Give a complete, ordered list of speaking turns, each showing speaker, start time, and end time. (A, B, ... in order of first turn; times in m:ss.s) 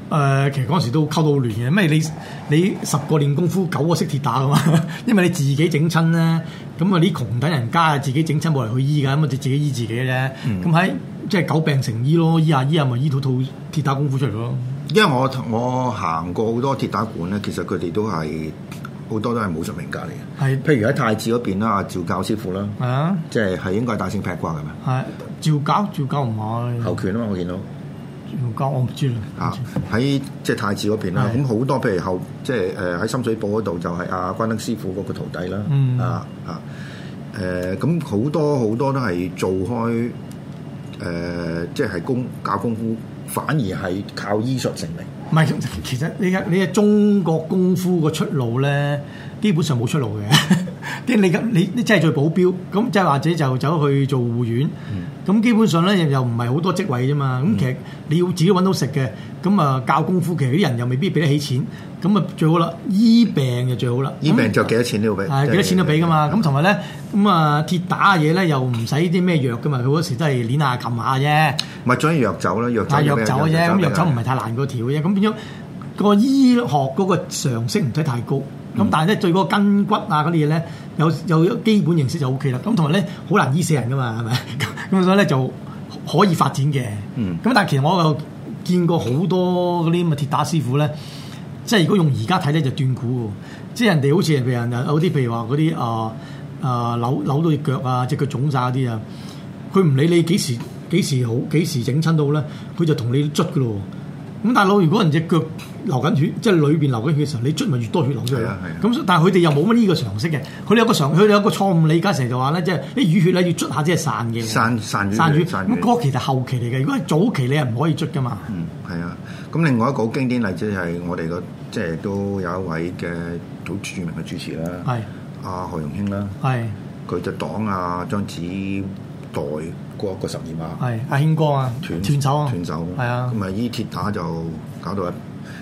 0:00.1-0:14.8 A
0:10.4-0:10.7 B
0:14.9-0:18.6 B
0:19.1-0:22.8 B
0:20.4-0:20.6 A
0:22.8-0:23.2 A
0:23.3-0:24.8 B
0:24.8-0:27.0 A
0:26.8-0:27.6 B
0:28.3-0:29.6 A
0:29.4-0:36.6 B
0:31.1-0:31.4 A
0:35.7-0:36.2 A
0:37.3-0:40.2 B
0:41.0-0:45.1 B
0:45.3-0:54.7 A
0:55.2-1:04.7 A
1:04.2-1:06.5 B
1:05.3-1:11.6 A
1:11.8-1:14.2 B
1:12.9-1:15.4 A
1:16.0-1:30.9 A
1:31.6-1:39.0 A
1:39.7-1:43.8 A
1:44.4-1:58.5 A
1:48.3-1:48.9 B
1:54.4-1:55.9 B
1:58.5-2:04.9 B
2:05.4-2:06.4 B
2:06.4-2:06.7 A
2:07.1-2:10.8 B
2:10.8-2:13.4 A
2:11.8-2:15.2 B